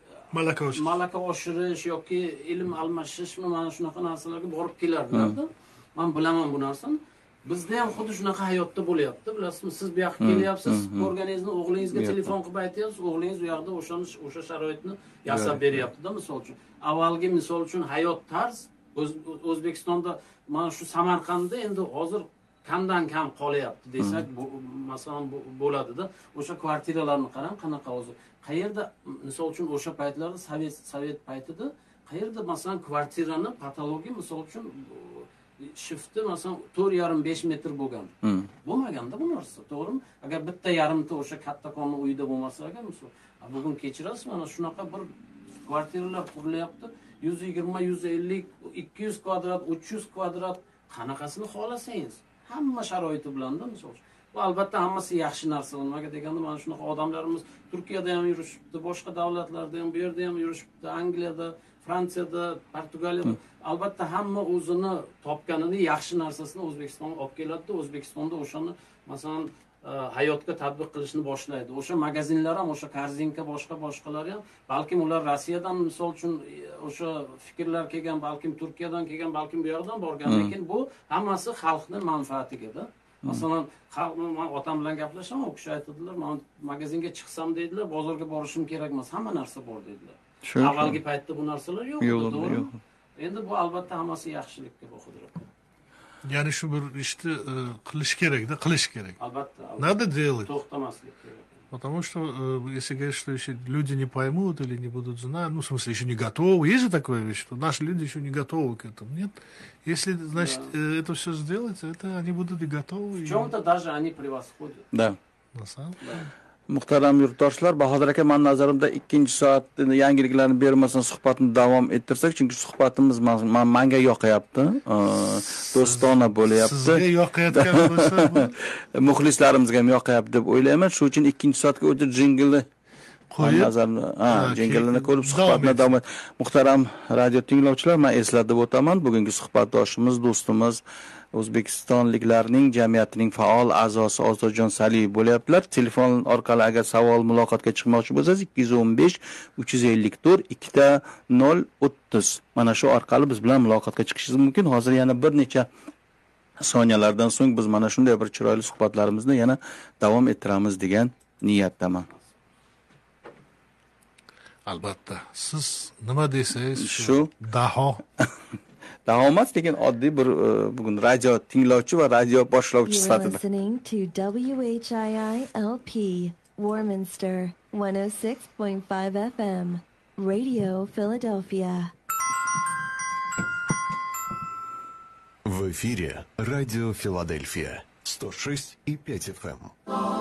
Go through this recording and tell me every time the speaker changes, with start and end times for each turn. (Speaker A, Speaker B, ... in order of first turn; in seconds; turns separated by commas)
Speaker A: 0.3-0.9, Speaker B: 0.7-95.4, Speaker C: 10.2-11.1, Speaker C: 11.9-12.3, Speaker C: 15.3-15.8, Speaker C: 38.2-38.5, Speaker C: 80.2-80.5, Speaker C: 90.4-91.0, Speaker C: 92.0-92.8, Speaker A: 96.2-99.2, Speaker B: 99.2-101.6, Speaker A: 99.8-100.5, Speaker A: 101.7-113.5, Speaker B: 110.3-110.7, Speaker B: 113.2-114.8, Speaker C: 114.9-115.2, Speaker A: 115.5-116.0, Speaker B: 116.0-116.3, Speaker C: 116.7-132.7, Speaker A: 125.2-128.6, Speaker A: 133.3-133.7, Speaker C: 133.4-140.8, Speaker A: 134.2-135.9, Speaker C: 141.3-155.7, Speaker C: 156.6-162.1, Speaker A: 164.7-168.0, Speaker C: 166.8-167.3, Speaker C: 169.1-173.4, Speaker D: 172.8-181.9, Speaker E: 185.4-189.7